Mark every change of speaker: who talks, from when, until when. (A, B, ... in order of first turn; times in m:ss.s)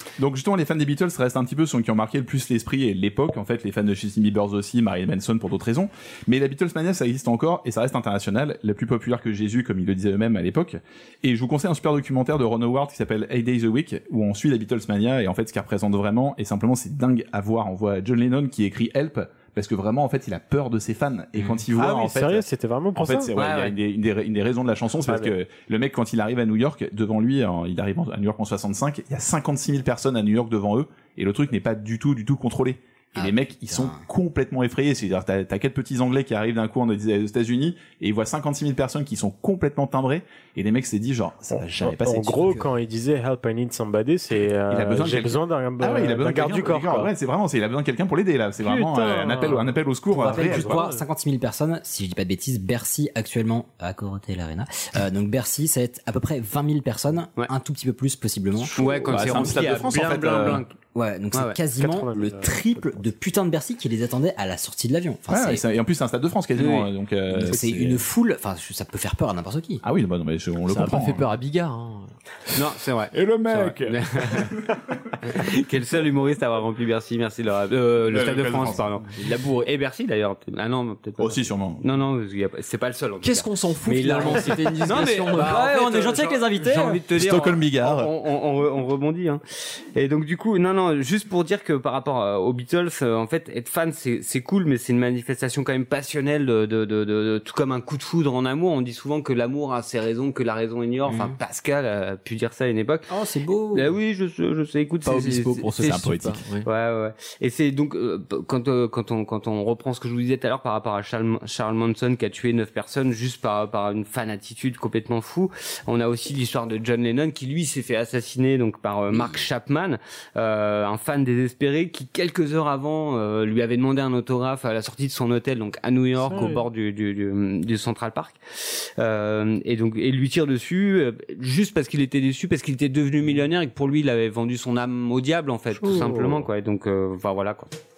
0:00.2-0:42.6 A
0:21.7-0:23.3 B
0:23.4-0:23.7 C
0:25.0-0:25.3 B
0:33.1-0:34.0 D
0:41.5-0:47.1 B
0:44.7-0:50.8 A
0:48.6-0:51.0 B
0:50.1-0:59.2 D
0:58.7-1:00.7 C
0:58.8-1:00.6 A
1:00.9-1:05.6 D
1:01.8-1:02.6 B
1:05.3-1:08.0 A
1:06.6-1:06.9 C
1:07.3-1:09.8 D
1:09.8-1:11.3 A
1:10.7-1:12.1 E
1:12.5-1:14.6 C
1:13.1-1:14.6 A
1:15.2-1:29.4 C
1:18.1-1:18.8 A
1:19.2-1:19.7 E
1:21.2-1:21.8 A
1:23.2-1:25.6 E
1:23.9-1:24.6 D
1:25.4-1:27.0 D
1:27.1-1:28.1 A
1:29.9-1:43.1 C
1:41.1-1:41.3 D
1:43.1-1:43.9 D
1:43.7-1:45.7 C
1:45.0-1:46.6 E
1:45.8-1:46.4 A
1:46.6-2:17.7 C
1:59.1-1:59.4 D
2:06.3-2:06.6 B
2:15.8-2:16.3 B